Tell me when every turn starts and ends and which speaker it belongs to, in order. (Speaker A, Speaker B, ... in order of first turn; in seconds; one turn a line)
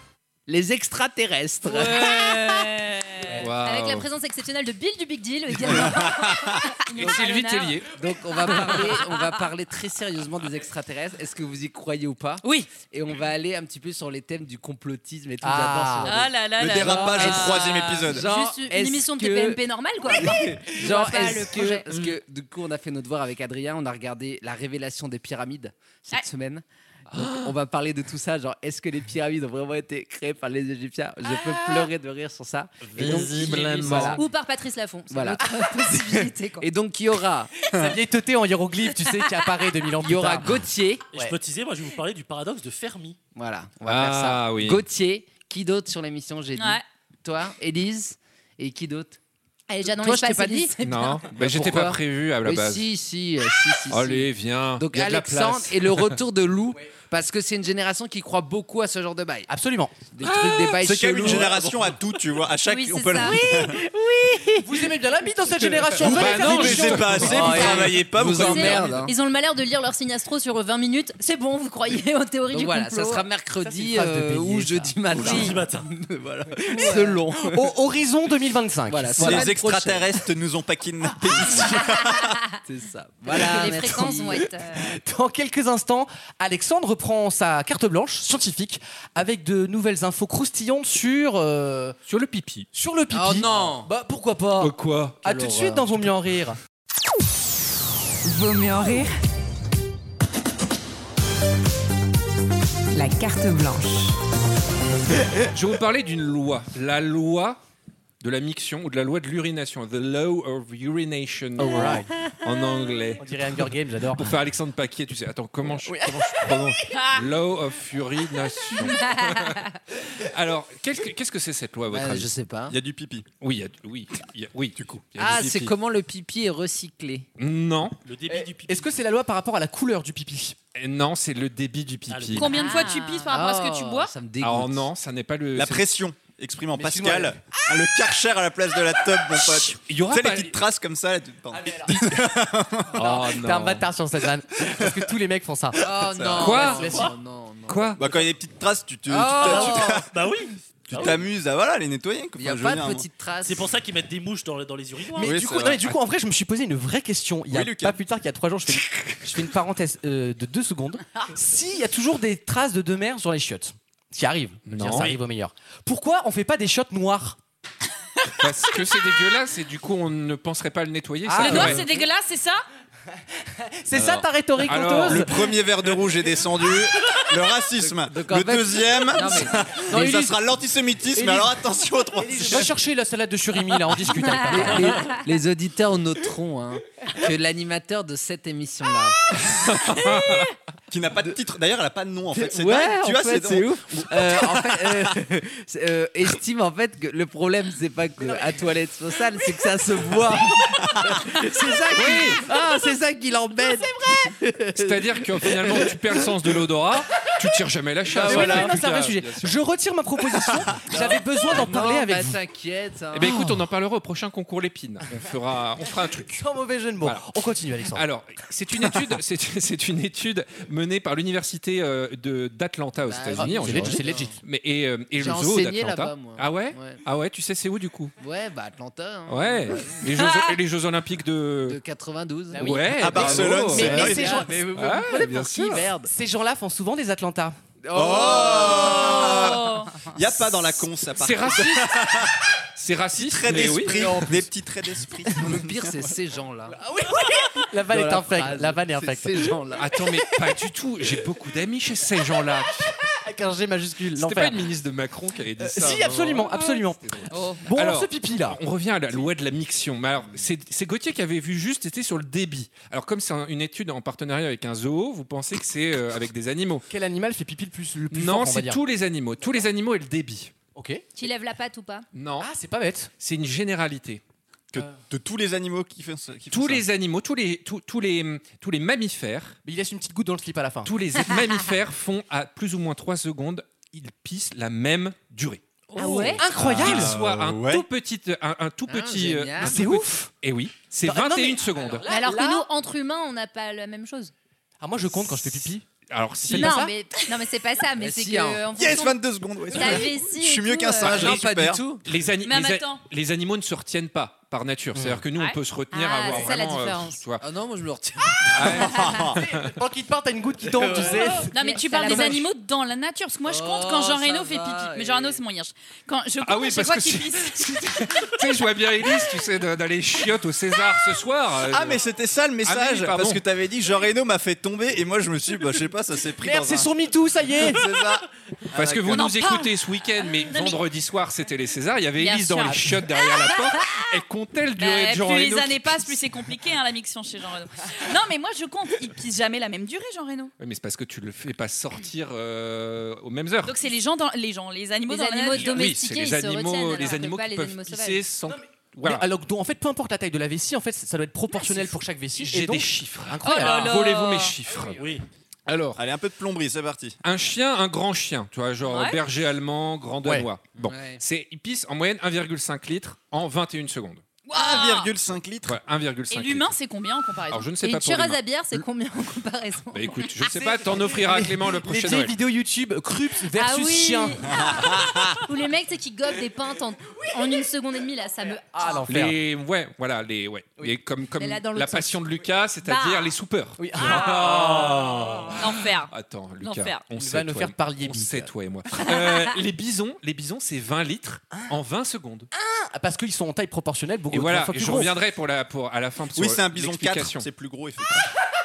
Speaker A: 0.5-2.7
Speaker B: 1.6-3.4
Speaker C: 3.4-4.1
Speaker D: 3.6-7.4
Speaker E: 5.6-6.5
Speaker C: 6.9-7.9
Speaker B: 7.0-7.7
Speaker A: 7.0-34.2
Speaker B: 8.5-9.2
Speaker B: 12.4-12.7
Speaker F: 15.4-16.2
Speaker B: 16.0-18.2
Speaker E: 16.6-18.3
Speaker D: 18.1-21.9
Speaker C: 27.1-27.5
Speaker C: 33.0-34.2
Speaker D: 34.0-36.7
Speaker A: 35.1-37.6
Speaker E: 37.7-38.0
Speaker F: 37.7-40.6
Speaker A: 39.9-41.1
Speaker G: 41.1-43.2
Speaker A: 43.3-49.2
Speaker C: 43.8-44.8
Speaker B: 46.5-46.8
Speaker D: 49.7-51.3
Speaker A: 49.8-59.5
Speaker C: 50.8-52.9
Speaker C: 53.9-56.1
Speaker F: 59.5-60.0
Speaker A: 60.1-61.8
Speaker C: 60.2-61.3
Speaker E: 60.8-63.8
Speaker D: 62.7-63.4
Speaker A: 63.5-64.8
Speaker F: 64.6-67.8
Speaker C: 66.0-67.6
Speaker E: 66.0-69.0
Speaker A: 66.4-69.1
Speaker D: 68.4-73.3
Speaker A: 72.5-77.7
Speaker F: 73.7-75.0
Speaker D: 75.2-75.6
Speaker G: 75.2-75.8
Speaker D: 76.7-77.2
Speaker F: 76.8-79.5
Speaker A: 78.9-80.2
Speaker E: 79.2-82.4
Speaker A: 82.6-84.5
Speaker D: 83.3-84.9
Speaker F: 84.7-92.0
Speaker C: 92.1-92.7
Speaker F: 92.7-96.6
Speaker A: 93.1-93.9
Speaker C: 94.6-95.2
Speaker A: 95.2-96.1
Speaker H: 98.2-99.1
Speaker H: 102.9-104.2
Speaker C: 105.5-107.6
Speaker C: 108.2-113.3
Speaker F: 111.6-112.1
Speaker F: 113.2-114.3
Speaker C: 114.1-122.3
Speaker F: 115.8-116.7
Speaker D: 119.2-119.6
Speaker A: 121.9-122.8
Speaker E: 122.7-123.3
Speaker C: 123.4-125.7
Speaker A: 125.2-127.3
Speaker C: 127.4-128.0
Speaker G: 128.1-128.9
Speaker F: 128.3-130.6
Speaker C: 130.8-132.5
Speaker G: 132.1-132.5
Speaker B: 132.3-134.1
Speaker D: 132.4-133.3
Speaker A: 133.3-134.9
Speaker C: 134.4-135.9
Speaker E: 135.6-143.2
Speaker F: 136.8-137.8
Speaker C: 139.7-140.6
Speaker F: 141.5-142.2
Speaker C: 142.9-143.9
Speaker F: 143.1-145.9
Speaker A: 145.8-148.2
Speaker E: 145.8-146.6
Speaker C: 146.4-146.9
Speaker F: 146.6-147.1
Speaker C: 147.7-148.0
Speaker E: 148.0-150.1
Speaker A: 149.1-150.1
Speaker G: 149.4-151.3
Speaker E: 150.9-153.1
Speaker A: 152.4-153.7
Speaker G: 153.4-155.3
Speaker F: 155.2-167.4
Speaker E: 155.2-155.9
Speaker E: 157.5-158.0
Speaker C: 164.7-165.2
Speaker C: 168.4-171.9
Speaker F: 171.2-172.0
Speaker B: 171.4-172.6
Speaker F: 173.4-175.4
Speaker C: 174.6-175.4
Speaker E: 175.0-182.8
Speaker A: 177.8-180.3
Speaker F: 179.9-180.4
Speaker F: 181.1-185.1
Speaker D: 184.3-184.7
Speaker A: 184.4-189.4
Speaker C: 189.5-190.5
Speaker E: 190.9-194.9
Speaker A: 192.3-206.6
Speaker C: 201.9-202.5
Speaker C: 204.8-209.6
Speaker A: 208.1-208.8
Speaker F: 208.2-212.4
Speaker A: 210.9-213.5
Speaker C: 213.1-216.4
Speaker F: 216.3-218.1
Speaker C: 217.0-217.3
Speaker C: 217.9-228.1
Speaker A: 223.0-224.4
Speaker F: 223.4-224.4
Speaker A: 225.1-227.0
Speaker A: 228.2-230.3
Speaker C: 229.3-231.8
Speaker A: 231.7-236.1
Speaker F: 232.5-234.7
Speaker C: 232.6-235.9
Speaker E: 233.0-234.6
Speaker F: 236.0-237.6
Speaker A: 237.8-239.3
Speaker E: 237.9-242.4
Speaker B: 238.3-240.1
Speaker C: 241.1-242.1
Speaker C: 242.8-244.4
Speaker E: 243.1-246.2
Speaker A: 245.4-246.8
Speaker F: 246.7-249.5
Speaker A: 247.8-250.0
Speaker C: 249.8-252.9
Speaker F: 253.0-254.7
Speaker C: 254.2-266.9
Speaker F: 255.6-258.6
Speaker B: 257.3-257.6
Speaker F: 266.9-268.8
Speaker C: 268.1-270.5
Speaker F: 270.8-271.1
Speaker D: 271.2-272.1
Speaker C: 272.1-272.5
Speaker F: 272.4-273.1
Speaker C: 273.2-274.2
Speaker E: 274.7-276.9
Speaker C: 276.5-279.6
Speaker F: 279.6-280.9
Speaker C: 280.9-292.1
Speaker D: 286.0-286.4
Speaker F: 286.4-287.2
Speaker E: 286.6-287.9
Speaker A: 288.9-289.8
Speaker F: 289.6-290.3
Speaker F: 291.0-292.7
Speaker D: 292.1-294.3
Speaker F: 294.8-295.9
Speaker C: 296.1-296.8
Speaker F: 296.4-296.9
Speaker D: 296.5-301.4
Speaker A: 298.0-298.7
Speaker E: 298.7-301.9
Speaker A: 301.1-302.0
Speaker C: 302.0-307.4
Speaker B: 302.4-303.0
Speaker D: 305.9-307.2
Speaker A: 307.4-309.1
Speaker C: 308.5-309.7
Speaker E: 308.7-309.4
Speaker F: 309.4-312.4
Speaker A: 310.6-311.5
Speaker B: 311.5-317.8
Speaker D: 311.5-312.4
Speaker A: 313.4-315.4
Speaker C: 316.4-322.0
Speaker E: 321.6-326.9
Speaker C: 322.6-323.4
Speaker F: 326.4-327.9
Speaker E: 327.6-329.3
Speaker C: 328.7-336.1
Speaker B: 329.1-330.8
Speaker B: 332.2-332.8
Speaker B: 334.8-340.5
Speaker C: 340.6-343.8
Speaker B: 343.6-345.9
Speaker D: 345.1-348.2
Speaker C: 345.5-349.3
Speaker F: 348.5-354.1
Speaker C: 352.4-355.0
Speaker B: 353.4-354.6
Speaker G: 355.0-355.2
Speaker C: 355.7-356.0
Speaker E: 356.0-357.2
Speaker C: 357.2-364.2
Speaker B: 358.9-359.2
Speaker A: 360.8-361.2
Speaker B: 364.5-365.1
Speaker E: 364.5-365.8
Speaker C: 365.6-366.7
Speaker B: 366.3-367.7
Speaker C: 367.5-368.8
Speaker D: 367.8-370.3
Speaker C: 369.9-372.4
Speaker F: 370.4-374.6
Speaker D: 373.5-379.0
Speaker E: 374.5-375.4
Speaker F: 378.7-379.4
Speaker C: 379.1-392.5
Speaker D: 381.4-382.2
Speaker D: 382.8-383.4
Speaker F: 383.8-385.6
Speaker B: 385.6-387.0
Speaker F: 387.2-388.5
Speaker F: 392.5-395.2
Speaker C: 394.3-397.5
Speaker E: 396.3-398.3